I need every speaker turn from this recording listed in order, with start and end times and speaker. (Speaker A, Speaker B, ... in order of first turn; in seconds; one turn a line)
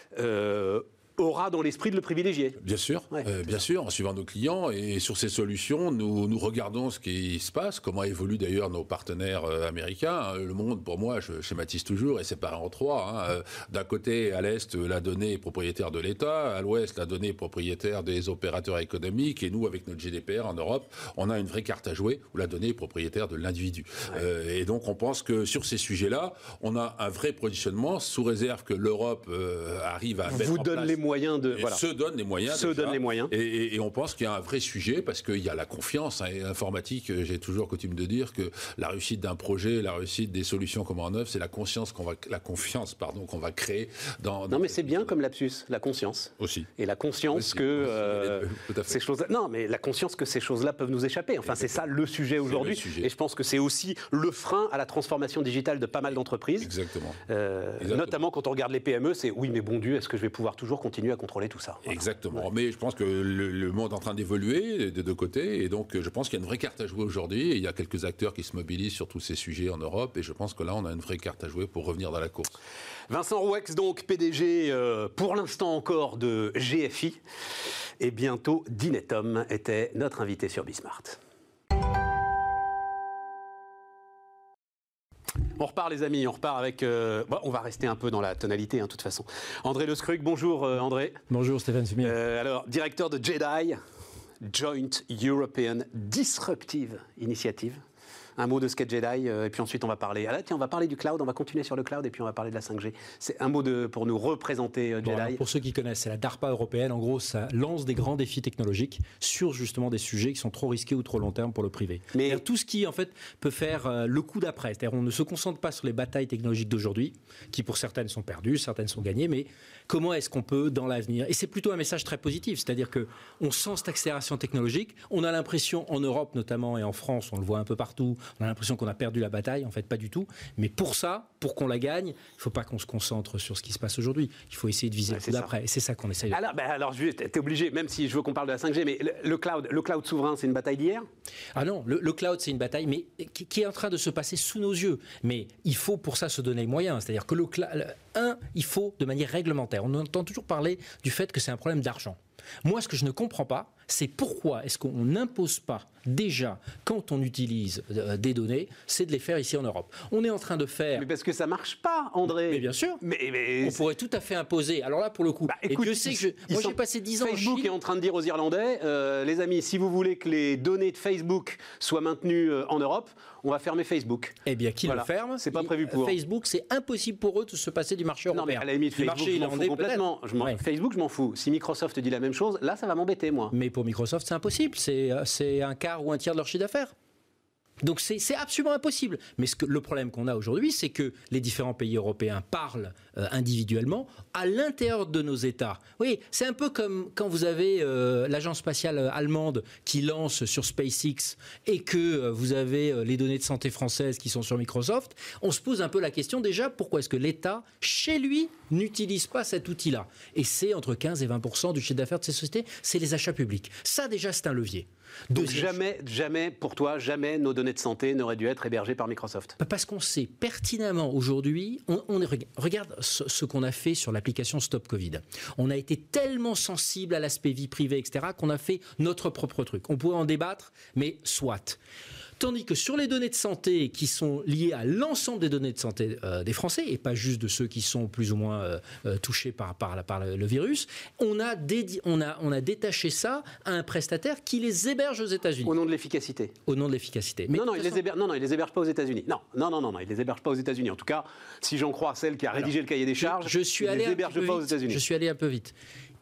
Speaker A: 0.1-2.6
Speaker B: 2.6-31.0
Speaker A: 30.3-31.8
Speaker B: 31.5-45.2
Speaker A: 32.5-33.3
Speaker A: 44.5-56.7
Speaker B: 46.4-46.7
Speaker B: 47.3-49.0
Speaker B: 51.4-51.9
Speaker B: 52.4-53.1
Speaker B: 56.6-57.2
Speaker A: 57.3-62.5
Speaker B: 57.8-58.2
Speaker B: 61.8-72.5
Speaker A: 73.1-77.2
Speaker A: 78.0-81.2
Speaker A: 85.5-91.2
Speaker C: 91.3-92.2
Speaker A: 92.0-93.8
Speaker A: 94.4-97.8
Speaker A: 98.4-105.4
Speaker C: 105.0-136.4
Speaker A: 112.1-112.4
Speaker A: 135.1-135.5
Speaker A: 136.3-141.0
Speaker C: 141.5-161.1
Speaker A: 160.9-163.8
Speaker C: 162.5-163.0
Speaker C: 163.6-167.7
Speaker A: 165.5-176.2
Speaker C: 174.4-180.6
Speaker A: 178.3-183.5
Speaker C: 183.5-186.9
Speaker C: 187.8-215.8
Speaker A: 215.3-219.6
Speaker C: 219.6-231.8
Speaker C: 232.4-245.7
Speaker A: 245.6-246.5
Speaker C: 246.7-248.0
Speaker A: 247.5-255.0
Speaker C: 253.2-255.7